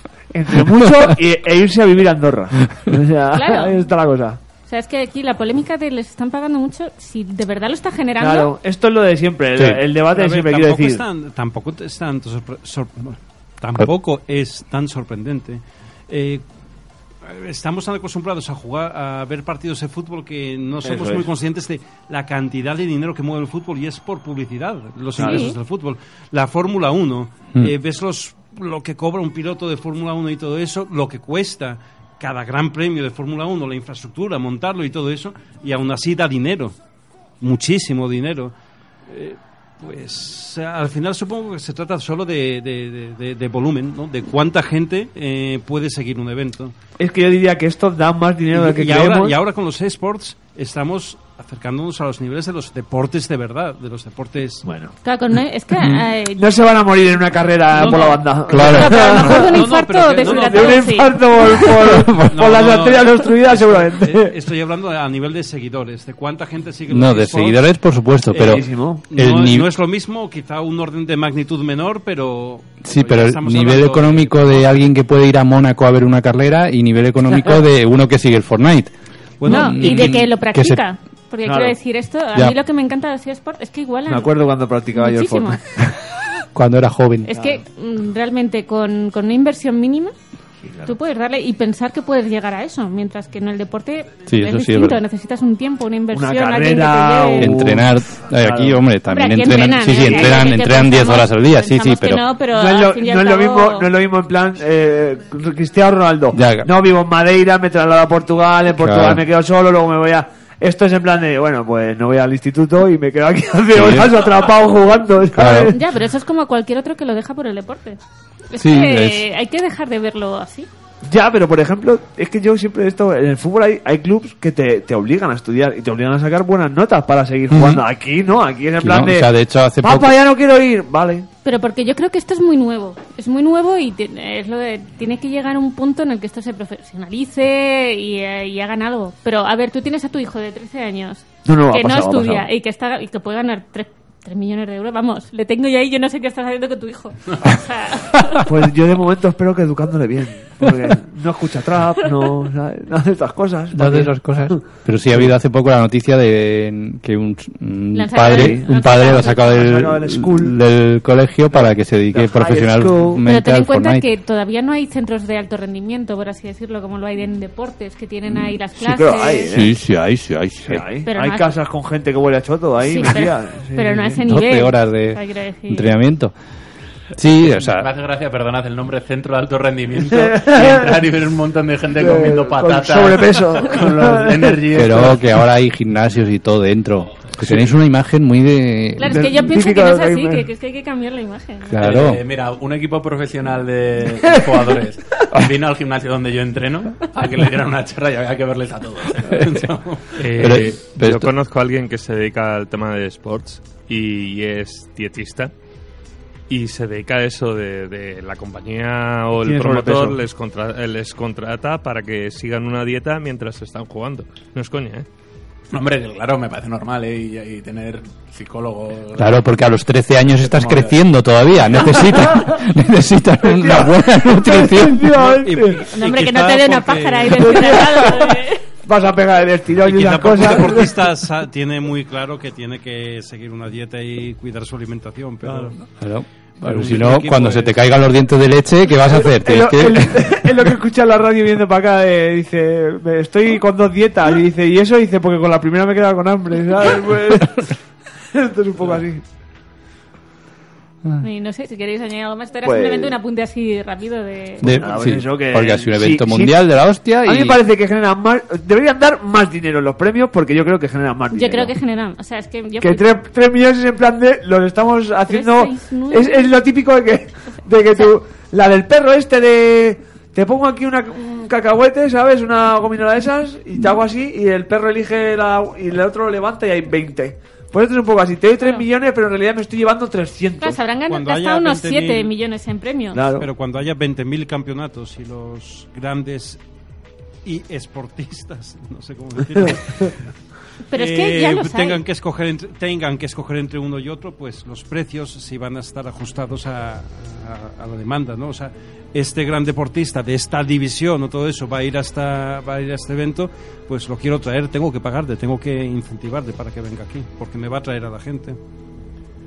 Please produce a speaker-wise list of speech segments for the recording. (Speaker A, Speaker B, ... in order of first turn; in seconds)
Speaker A: 0.3-4.4, 8.2-11.0, 20.8-21.3, 25.2-25.5, 47.0-49.4, 54.6-54.9, 56.4-59.6, 60.2-64.3, 68.5-69.0, 81.5-81.8, 84.1-85.6, 87.3-87.6, 90.6-91.0, 96.1-98.8, 100.0-100.3, 102.5-115.8, 121.0-129.3, 129.8-131.3, 141.4-142.5, 148.4-154.6, 158.2-160.6, 161.5-163.2, 168.8-169.7, 170.7-174.2, 180.1-181.0, 181.9-184.9, 187.4-187.7, 189.1-190.5, 209.4-210.2, 223.5-225.9, 227.3-231.1, 235.4-235.7, 239.2-247.8, 248.3-249.2, 252.6-253.2, 254.7-256.6, 257.2-261.7, 262.8-280.8, 283.1-283.5
Speaker B: 0.8-1.1, 9.6-9.8, 58.5-59.1, 66.9-69.7, 72.8-80.8, 86.5-87.3, 94.3-95.0, 97.4-102.2, 106.3-106.7, 108.7-109.2, 113.7-114.2, 115.3-115.8, 118.6-119.2, 127.5-127.8, 128.8-130.2, 153.7-164.1, 169.5-170.8, 174.2-176.3, 177.1-177.9, 184.7-189.3, 191.7-192.2, 200.3-201.3, 219.2-225.1, 236.0-240.7, 254.6-257.6
Speaker C: 3.3-3.9, 4.7-8.5, 25.2-25.6, 55.0-56.5, 57.8-61.8, 79.5-84.4, 84.9-85.6, 87.3-90.1, 90.8-97.6, 99.1-103.9, 115.7-120.7, 131.4-148.5, 157.9-159.6, 163.2-169.5, 171.1-171.6, 172.8-175.9, 189.0-191.8, 225.9-228.6, 251.2-254.7, 261.3-263.1, 265.3-266.5, 280.6-283.2, 290.9-292.0
Speaker D: 10.0-16.4, 17.2-36.8, 37.4-38.5, 39.1-46.8, 48.5-54.7, 58.7-61.0, 62.3-67.6, 68.3-74.9, 79.4-80.2, 225.1-227.8, 229.8-235.8, 236.6-237.8, 281.1-282.3, 283.4-286.6, 287.4-290.1, 290.9-308.6
Speaker E: 177.5-185.2, 191.8-200.2, 215.7-219.4, 220.4-221.0
Speaker F: 200.2-205.5, 206.5-215.1